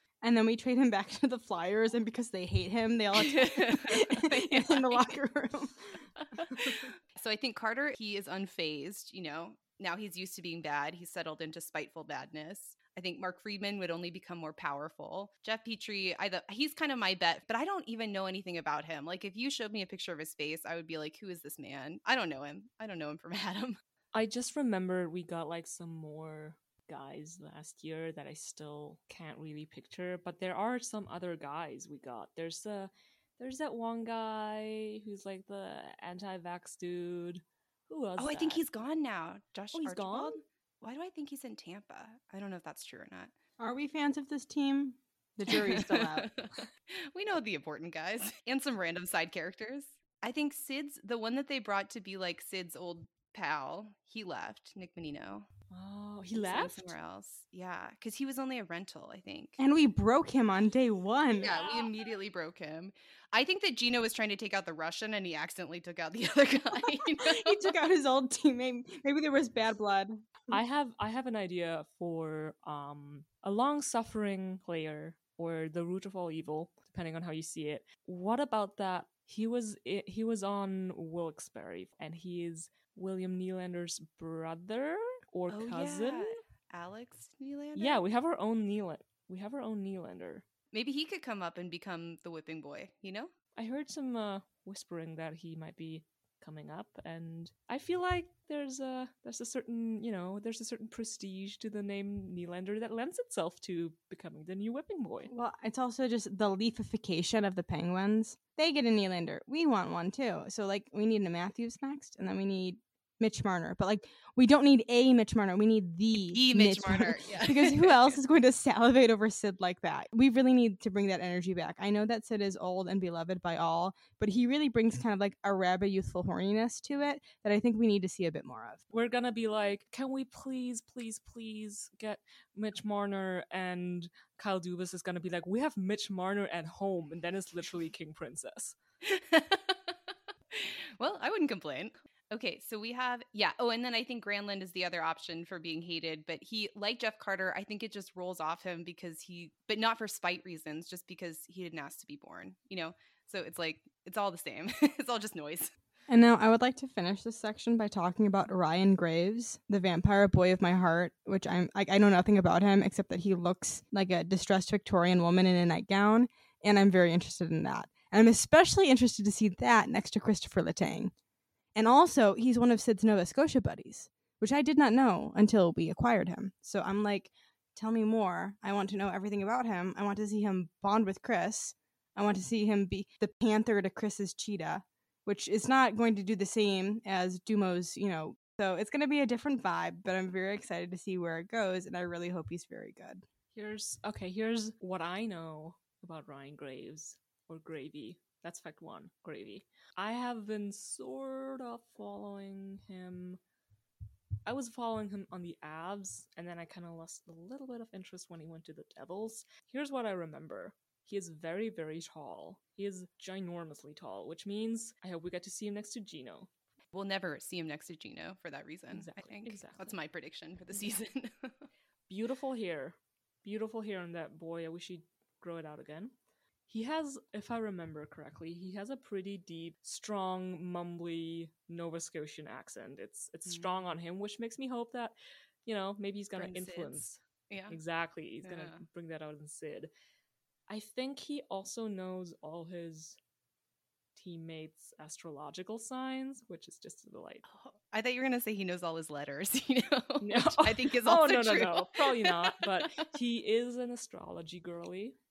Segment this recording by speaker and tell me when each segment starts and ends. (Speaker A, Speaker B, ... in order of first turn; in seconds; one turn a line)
Speaker A: 0.2-5.9
Speaker B: 3.1-5.0
Speaker A: 6.5-6.8
Speaker B: 6.5-23.8
Speaker C: 24.1-38.6
Speaker B: 38.2-43.3
Speaker C: 39.7-40.4
Speaker A: 43.6-46.3
Speaker B: 45.5-55.5
Speaker C: 55.7-56.9
Speaker B: 56.3-59.6
Speaker A: 59.6-61.5
Speaker B: 61.4-67.7
Speaker C: 61.6-61.9
Speaker A: 67.2-70.5
Speaker C: 70.5-86.4
Speaker B: 85.5-88.0
Speaker C: 87.8-90.4
Speaker B: 90.7-93.3
Speaker C: 93.5-105.3
Speaker A: 105.3-128.8
Speaker B: 116.2-118.2
Speaker C: 128.9-138.8
Speaker B: 139.0-139.9
Speaker B: 140.5-155.7
Speaker A: 156.1-171.1
Speaker A: 171.7-193.2
Speaker C: 193.5-203.4
Speaker C: 204.4-216.5
Speaker B: 216.9-221.7
Speaker C: 218.9-219.9
Speaker C: 222.1-226.1
Speaker C: 226.7-235.1
Speaker B: 233.5-233.7
Speaker C: 235.7-239.9
Speaker B: 236.3-237.8
Speaker B: 238.4-238.8
Speaker C: 240.7-243.2
Speaker C: 244.1-247.4
Speaker B: 247.5-253.0
Speaker C: 250.2-255.2